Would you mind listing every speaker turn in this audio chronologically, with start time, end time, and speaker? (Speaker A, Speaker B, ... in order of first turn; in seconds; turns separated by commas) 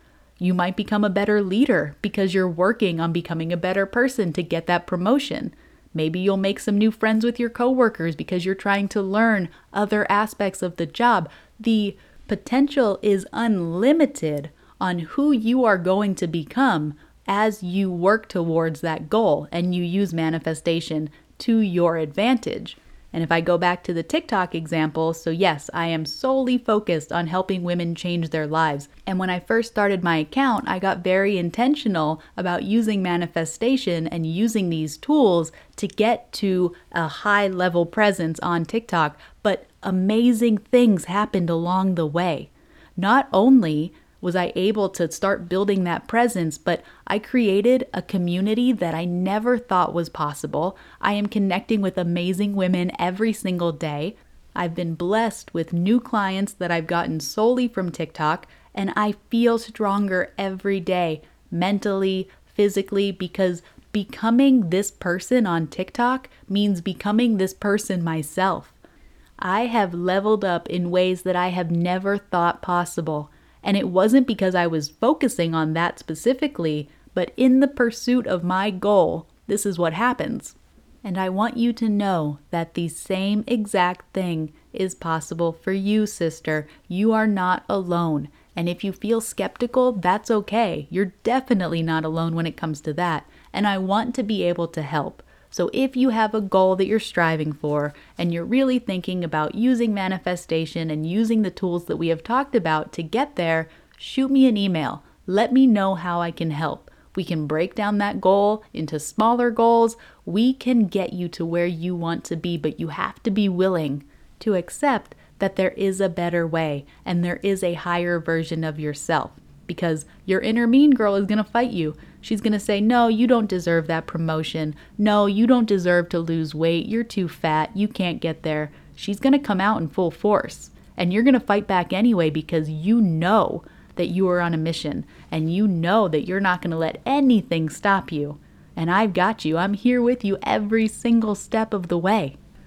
Speaker A: 0.4-68.8, Speaker A: 69.4-142.3